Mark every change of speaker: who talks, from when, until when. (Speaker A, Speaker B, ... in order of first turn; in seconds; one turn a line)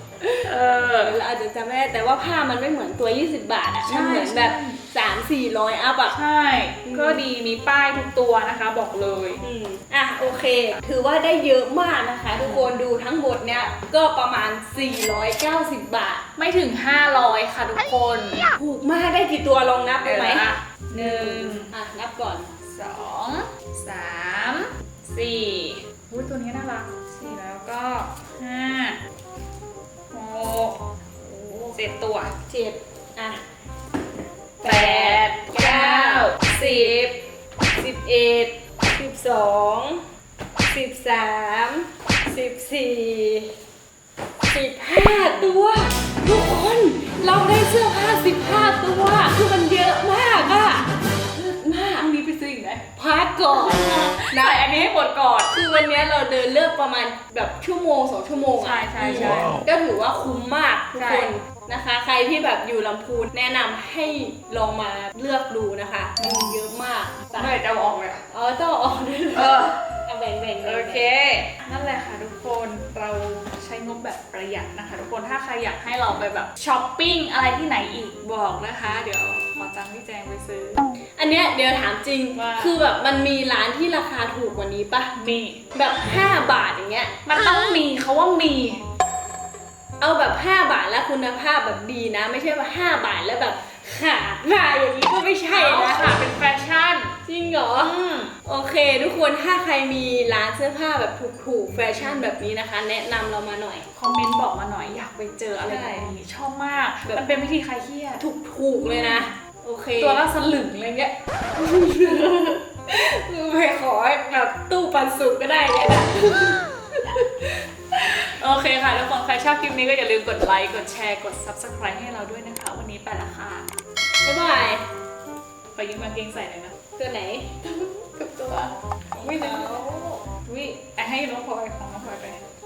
Speaker A: 0.4-1.2
Speaker B: 1.0-6.2
Speaker A: 3.8-4.8
Speaker A: 6.1-9.4
Speaker B: 6.9-7.2
Speaker B: 9.4-16.2
Speaker A: 12.3-12.8
Speaker A: 16.4-18.5
Speaker B: 18.5-22.5
Speaker A: 20.0-21.7
Speaker A: 22.7-29.0
Speaker A: 30.1-32.3
Speaker B: 32.5-33.4
Speaker B: 34.6-37.2
Speaker A: 34.6-37.1
Speaker B: 37.8-40.1
Speaker B: 40.7-43.5
Speaker B: 44.5-52.1
Speaker A: 45.0-45.5
Speaker A: 52.0-52.9
Speaker B: 53.0-54.9
Speaker A: 53.5-55.5
Speaker B: 55.5-67.5
Speaker A: 58.5-59.6
Speaker A: 61.0-61.3
Speaker A: 66.2-66.6
Speaker A: 67.3-68.2
Speaker B: 68.3-71.1
Speaker A: 69.3-69.9
Speaker A: 70.6-80.8
Speaker B: 81.2-85.1
Speaker A: 82.3-82.8
Speaker A: 85.2-85.6
Speaker B: 85.7-87.1
Speaker A: 87.3-88.8
Speaker B: 90.0-96.2
Speaker A: 95.5-97.2
Speaker B: 97.3-103.8
Speaker A: 97.8-98.3
Speaker A: 102.0-102.3
Speaker A: 103.9-108.2
Speaker B: 105.6-106.1
Speaker B: 108.2-110.2
Speaker A: 108.8-109.3
Speaker A: 110.0-111.2
Speaker B: 111.5-117.7
Speaker A: 117.9-123.7
Speaker B: 124.2-124.8
Speaker A: 125.8-126.7
Speaker B: 127.0-129.8
Speaker A: 129.1-132.4